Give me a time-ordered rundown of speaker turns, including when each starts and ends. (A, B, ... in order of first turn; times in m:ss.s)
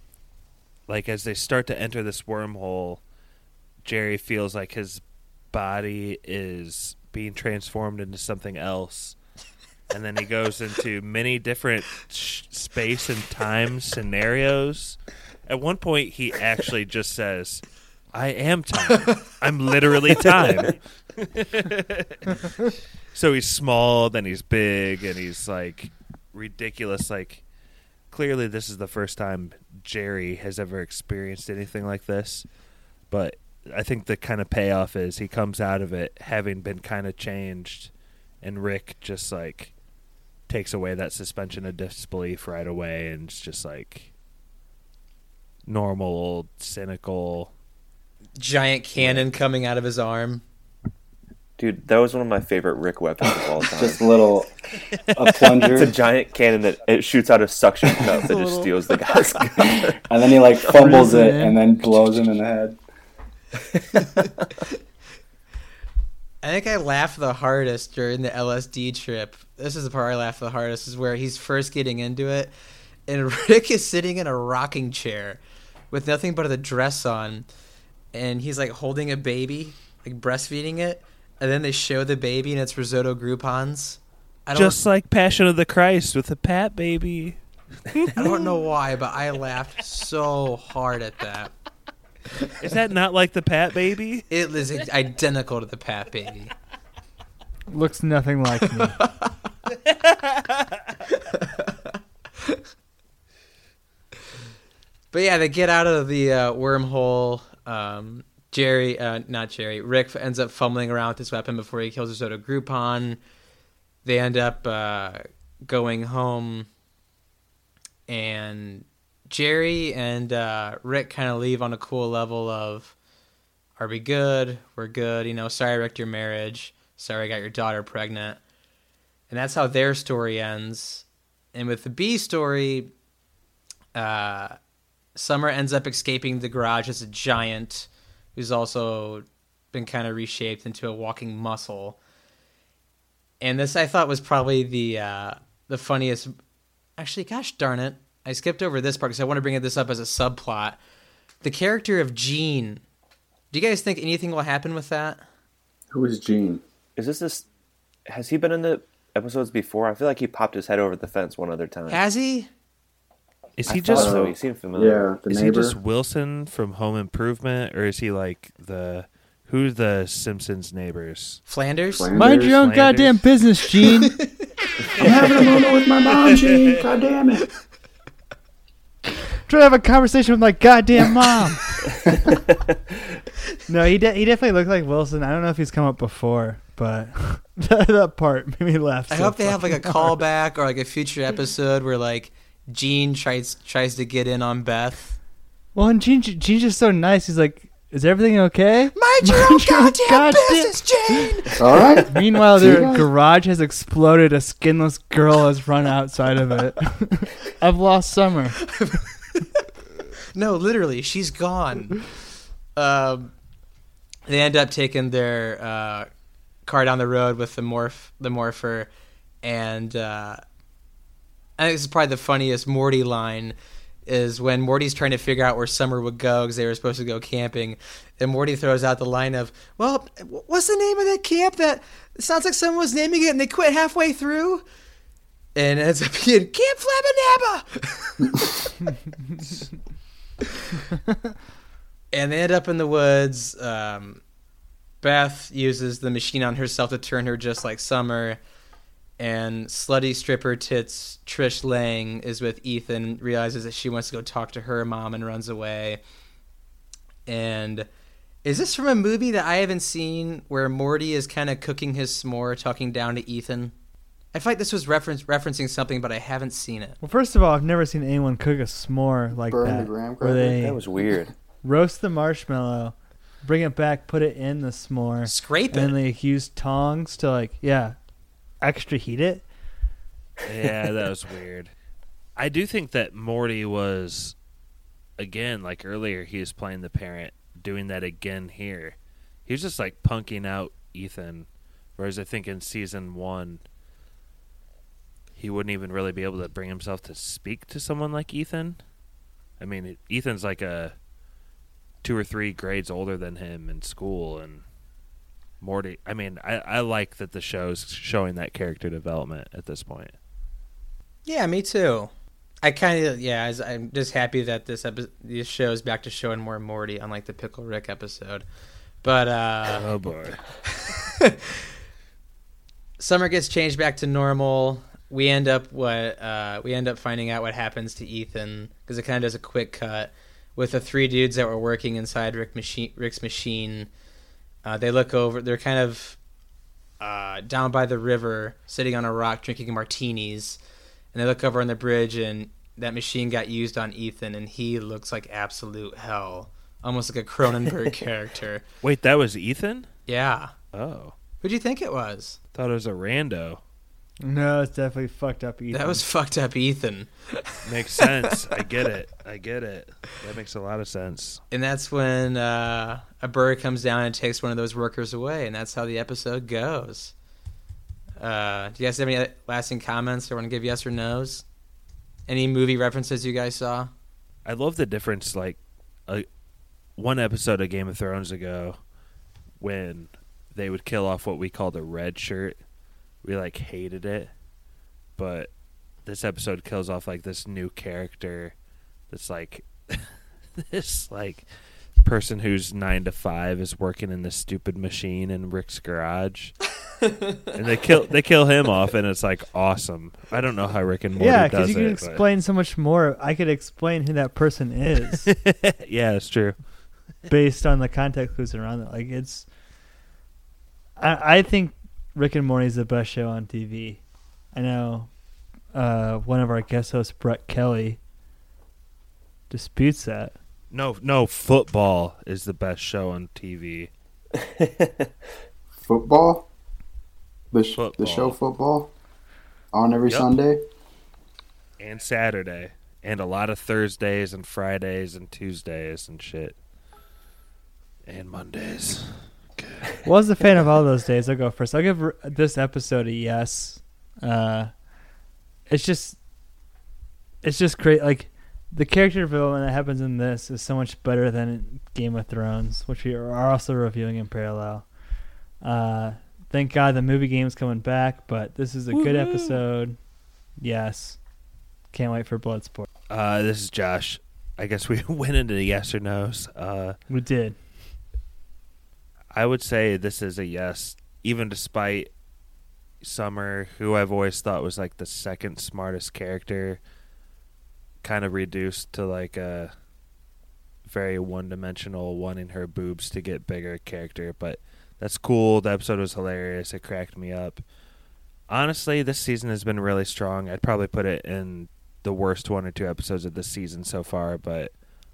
0:00.9-0:03.0 A
0:03.8-0:09.2 A
0:09.9-0:27.4 A
0:28.1-0:32.4 A
0:33.1-0:39.7 A
0:40.5-0:44.1 A
0:45.6-0:47.5 A
0:48.4-0:50.4 B
0:49.0-0:49.3 C
0:51.6-0:54.0 C
0:53.7-0:56.0 D
0:55.4-1:00.0 C
0:58.2-0:58.7 E
0:59.6-1:02.8 D
1:00.7-1:02.1 E
1:06.4-1:12.5 B
1:13.1-1:15.4 B
1:15.9-1:17.4 B
1:18.1-1:24.8 B
1:24.5-1:28.4 A
1:28.2-1:31.5 B
1:32.6-1:34.3 A
1:34.3-1:36.5 B
1:37.7-1:39.0 E
1:38.8-1:39.3 B
1:40.4-1:40.6 A
1:41.1-1:41.8 B
1:45.1-1:53.2 B
1:54.0-1:56.7 B
1:58.1-2:03.0 B
2:03.8-2:08.4 B
2:09.3-2:12.9 B
2:13.9-2:14.6 B
2:15.1-2:22.0 B
2:23.4-2:26.3 B
2:27.0-2:30.8 B
2:31.4-2:32.8 B
2:33.5-2:35.2 B
2:35.9-2:36.6 D
2:37.0-2:37.4 C
2:38.1-2:42.0 C
2:41.9-2:42.5 B
2:43.6-2:44.3 A
2:43.7-2:45.1 C
2:43.9-2:45.7 D
2:45.3-2:51.4 A
2:51.5-2:52.1 B
2:51.9-2:52.6 D
2:52.1-2:54.2 E
2:52.2-2:53.2 A
2:54.0-2:54.4 B
2:55.0-2:57.5 D
2:59.3-3:02.1 E
3:03.7-3:10.1 E
3:09.1-3:15.2 B
3:15.7-3:21.5 E
3:18.9-3:21.9 B
3:21.6-3:23.0 D
3:22.1-3:28.7 E
3:28.6-3:29.6 B
3:30.3-3:32.1 B
3:32.7-3:33.3 B
3:34.3-3:36.1 B
3:36.6-3:38.9 B
3:39.4-3:40.4 B
3:41.6-3:43.5 B
3:44.0-3:54.6 B
3:55.5-3:58.7 B
4:02.1-4:04.2 B
4:05.0-4:08.4 B
4:09.2-4:16.0 B
4:17.2-4:17.9 B
4:18.4-4:23.7 B
4:24.3-4:27.0 B
4:27.0-4:30.8 E
4:29.4-4:30.8 D
4:30.6-4:31.3 C
4:31.6-4:38.0 E
4:35.2-4:36.0 B
4:38.6-4:39.5 E
4:40.4-4:41.7 A
4:42.4-4:44.3 A
4:45.2-4:53.6 A
4:55.4-4:58.8 A
4:59.6-5:00.9 A
5:02.0-5:04.6 A
5:05.6-5:10.1 A
5:11.2-5:12.1 B
5:12.6-5:18.4 B
5:19.0-5:19.9 B
5:19.7-5:20.4 A
5:20.6-5:21.7 B
5:23.0-5:33.9 B
5:34.6-5:36.2 B
5:37.0-5:40.6 B
5:41.1-5:48.6 B
5:48.8-5:49.9 A
5:50.1-5:50.5 B
5:50.7-5:51.1 A
5:51.4-5:52.4 B
5:52.5-5:53.6 A
5:54.2-5:56.0 E
5:55.7-5:57.7 B
5:57.6-6:01.4 A
6:01.5-6:07.1 B
6:08.2-6:11.4 B
6:12.3-6:13.9 B
6:14.4-6:16.2 A
6:17.0-6:18.8 A
6:19.6-6:22.6 A
6:23.2-6:24.3 A
6:25.2-6:25.5 A
6:26.0-6:28.6 A
6:29.1-6:31.4 A
6:32.0-6:36.6 A
6:37.5-6:42.2 A
6:41.2-6:45.3 E
6:45.3-6:46.6 A
6:47.3-6:49.5 E
6:51.0-6:55.1 E
6:55.7-6:58.0 E
6:59.5-7:00.3 E
7:00.7-7:03.9 A
7:04.3-7:05.1 C
7:05.8-7:06.4 D
7:07.5-7:08.9 D
7:07.7-7:08.4 A
7:09.7-7:10.6 D
7:10.0-7:10.3 A
7:11.8-7:16.6 A
7:18.0-7:19.9 A
7:20.0-7:24.8 E
7:25.7-7:26.2 E
7:27.4-7:34.9 E
7:35.6-7:40.0 E
7:38.9-7:39.6 A
7:40.6-7:41.2 E
7:41.9-7:42.9 E
7:43.1-7:47.0 A
7:47.1-7:47.6 E
7:49.3-7:52.1 A
7:53.0-7:56.8 A
7:58.0-7:59.7 A
8:00.8-8:07.6 A
8:08.5-8:14.7 A